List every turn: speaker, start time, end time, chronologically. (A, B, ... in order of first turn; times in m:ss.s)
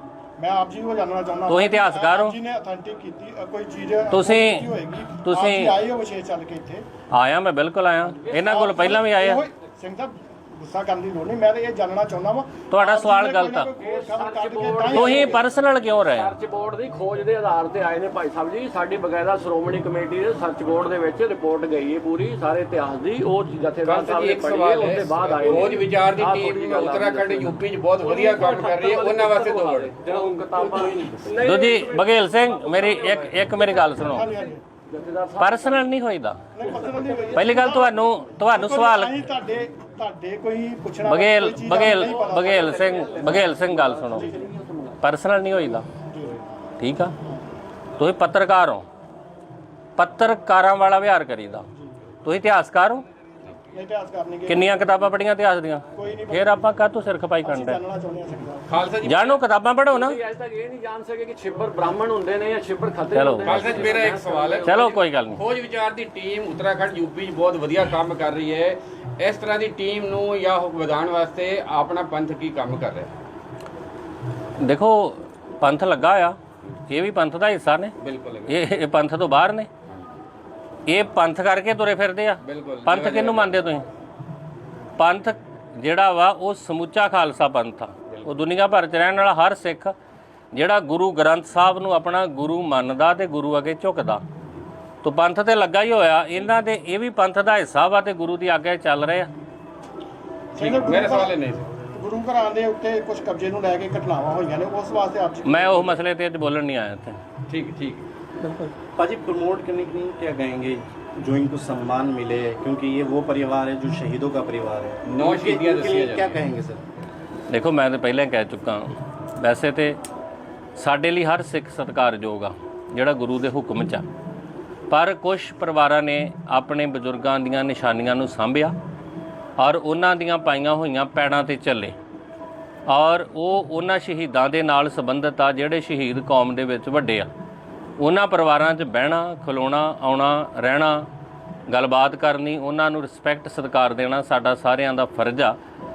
0:00.4-0:06.8 A
0:01.5-0:02.4 B
0:04.1-0:05.8 B
0:07.1-0:09.4 B
0:08.3-0:15.4 A
0:12.7-0:13.7 B
0:13.8-0:15.4 C
0:14.9-0:16.3 B
0:15.9-0:33.2 C
0:23.8-0:31.2 D
0:31.4-0:34.3 B
0:34.0-0:34.6 A
0:34.9-0:35.9 C
0:35.4-0:36.4 B
0:36.5-0:42.8 A
0:36.8-0:37.5 C
0:37.3-0:39.2 B
0:41.0-0:44.3 B
0:41.8-0:45.0 C
0:44.1-0:44.5 A
0:45.0-0:45.8 B
0:46.1-0:46.4 A
0:46.8-0:47.1 B
0:48.0-0:48.8 B
0:50.0-0:51.7 B
0:52.2-0:53.0 B
0:53.7-0:54.9 A
0:54.5-0:57.8 B
0:55.9-0:56.6 A
0:57.4-0:58.6 A
0:58.7-0:59.4 D
0:59.0-1:00.2 B
0:59.9-1:04.8 C
1:03.1-1:03.6 B
1:03.4-1:13.1 D
1:04.6-1:05.4 B
1:14.6-1:16.4 B
1:16.9-1:17.9 B
1:18.0-1:18.6 D
1:18.5-1:19.7 B
1:20.8-1:23.8 B
1:22.4-1:23.8 D
1:25.0-1:29.9 B
1:30.5-1:34.2 B
1:35.0-1:39.3 B
1:40.6-1:41.3 A
1:40.6-1:41.7 D
1:41.9-1:46.0 A
1:45.4-1:47.2 B
1:47.5-1:48.0 D
1:48.4-1:48.7 B
1:49.0-1:56.8 E
1:55.0-1:56.4 D
1:57.5-2:00.0 B
2:00.8-2:04.0 B
2:04.9-2:08.7 B
2:09.6-2:11.9 B
2:12.9-2:17.3 B
2:18.0-2:21.1 B
2:21.7-2:25.6 B